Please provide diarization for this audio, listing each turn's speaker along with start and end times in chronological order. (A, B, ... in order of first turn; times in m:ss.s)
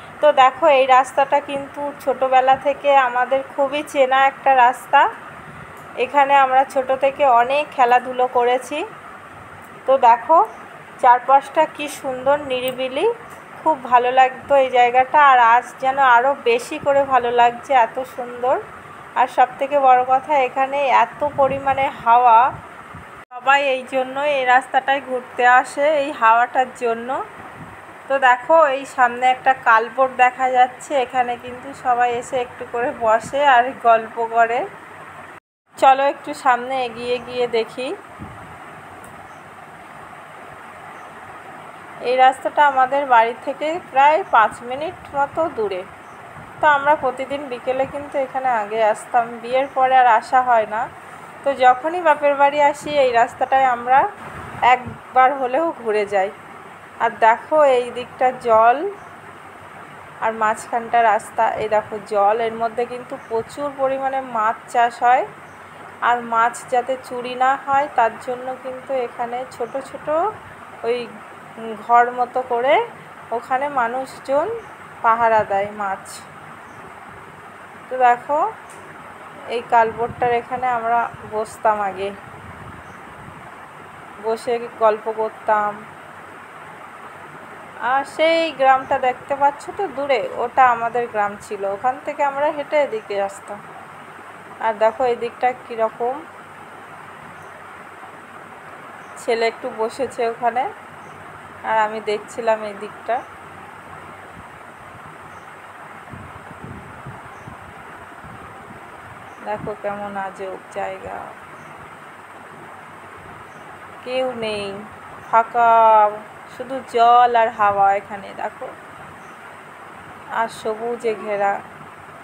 0:00.2-0:05.0 A
0:06.0-0:08.8 A
0:09.8-0:10.4 A
0:11.0-0:18.6 A
0:19.2-0:22.4 A
0:23.3-0:27.2 A
0:28.1-0:34.6 A
0:35.8-0:37.9 A
0:42.1-0:45.8 A
0:46.6-0:50.9 A
0:51.4-0:54.0 A
0:54.7-0:56.3 A
0:57.0-0:58.8 A
1:00.2-1:05.3 A
1:06.1-1:10.2 A
1:11.6-1:12.8 A
1:13.3-1:14.5 A
1:15.0-1:16.2 A
1:17.9-1:18.4 A
1:19.5-1:22.1 A
1:24.2-1:25.8 A
1:27.9-1:33.6 A
1:34.6-1:36.2 A
1:39.2-1:40.7 A
1:41.7-1:43.2 A
1:49.5-1:51.3 A
1:54.0-1:54.8 A
1:55.3-1:58.7 A
2:00.4-2:01.6 A